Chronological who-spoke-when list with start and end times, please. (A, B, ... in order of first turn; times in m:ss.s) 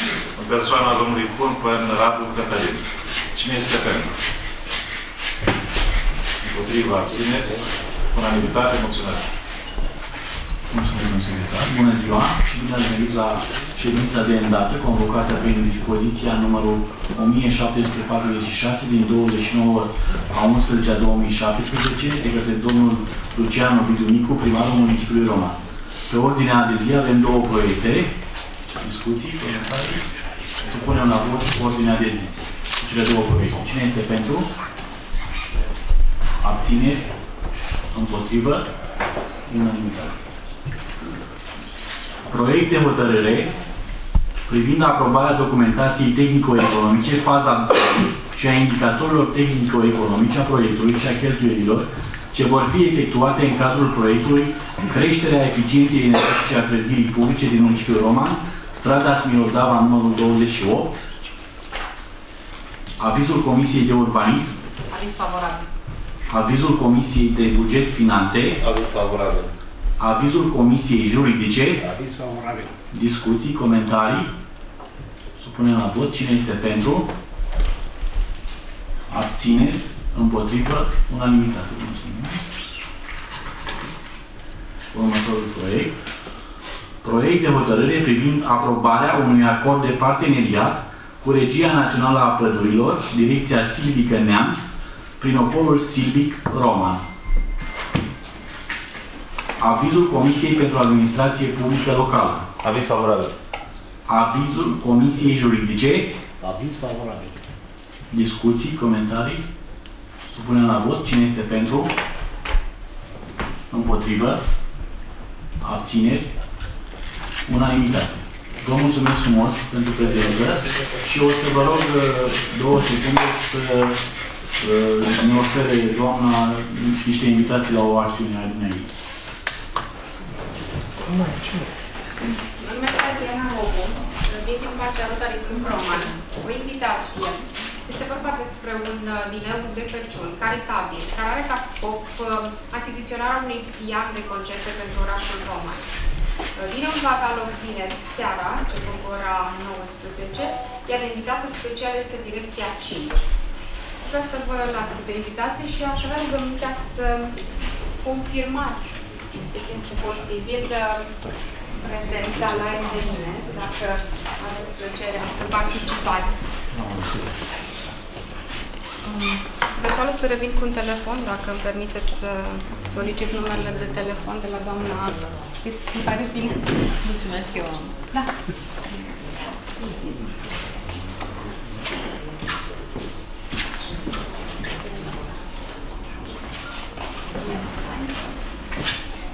0:00.4-0:04.1 A
0:06.4-0:07.5 A
0:08.1-0:09.3 A
0:10.7-0:25.6 B
0:26.1-0:28.1 B
0:28.8-0:30.0 B
0:30.6-0:34.5 B
0:36.4-0:37.0 B
0:37.9-0:38.6 B
0:39.5-0:40.1 B
0:42.3-0:43.5 B
0:44.4-1:01.0 B
1:03.0-1:04.6 B
1:04.9-1:05.7 C
1:06.3-1:08.6 B
1:08.6-1:09.3 A
1:08.8-1:09.5 D
1:10.0-1:11.9 B
1:11.8-1:12.7 D
1:12.9-1:14.3 B
1:15.4-1:17.1 B
1:19.1-1:22.4 B
1:24.9-1:26.0 B
1:27.0-1:34.7 B
1:35.2-1:37.0 B
1:39.6-1:42.5 B
1:42.6-1:43.3 A
1:44.1-1:46.1 B
1:46.4-1:47.4 D
1:48.1-1:49.4 B
1:50.3-1:51.9 B
1:53.7-1:54.4 B
1:55.6-1:56.3 B
1:57.4-2:04.0 B
2:04.6-2:08.9 B
2:11.2-2:11.6 D
2:12.6-2:25.9 C
2:26.5-2:33.3 C
2:34.0-2:37.4 C
2:38.0-2:41.1 C
2:41.8-2:46.4 C
2:49.0-2:58.3 C
3:07.4-3:07.8 C